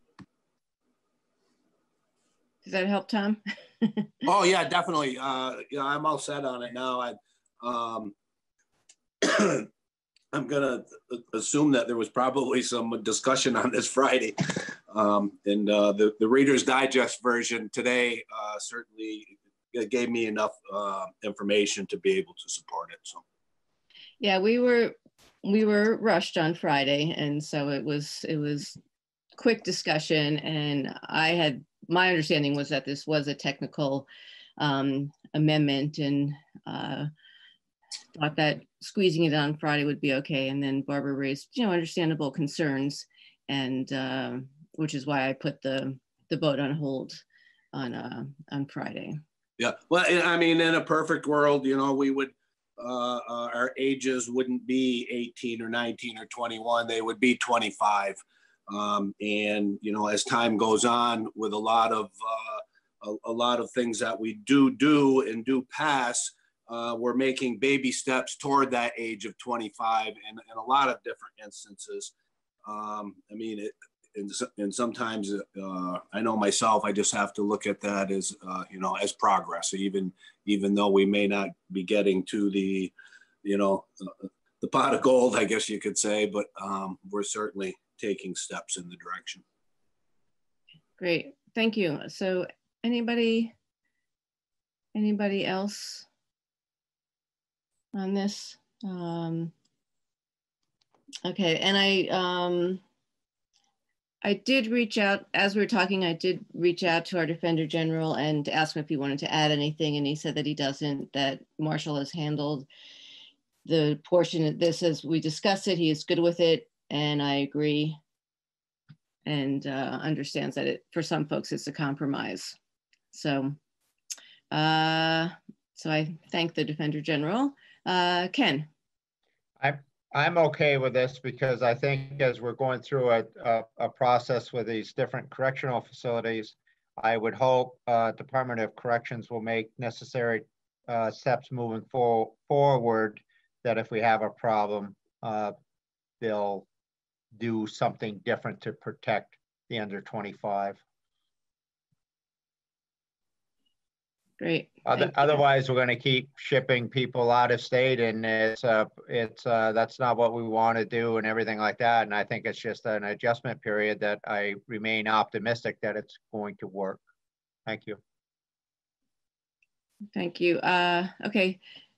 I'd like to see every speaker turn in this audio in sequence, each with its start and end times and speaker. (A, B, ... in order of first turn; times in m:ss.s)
0:02.6-0:04.1 A
0:04.3-0:08.1 B
0:09.2-0:09.7 B
0:10.3-0:23.2 B
0:24.2-0:28.8 A
0:29.4-0:37.1 A
0:38.1-0:47.2 A
0:47.7-0:49.2 A
0:49.6-1:12.1 B
1:12.6-1:22.9 B
1:23.4-1:29.4 B
1:31.0-1:33.5 A
1:34.9-1:36.1 A
1:37.9-1:39.5 A
1:41.2-1:42.8 A
1:44.2-1:52.7 A
1:53.6-1:58.0 A
1:59.2-2:02.6 A
2:03.1-2:03.6 A
2:04.5-2:08.7 A
2:09.6-2:25.5 C
2:26.2-2:26.6 C
2:27.3-2:30.8 C
2:34.4-2:35.4 A
2:34.9-2:47.0 C
2:47.6-2:48.0 C
2:50.1-2:51.6 A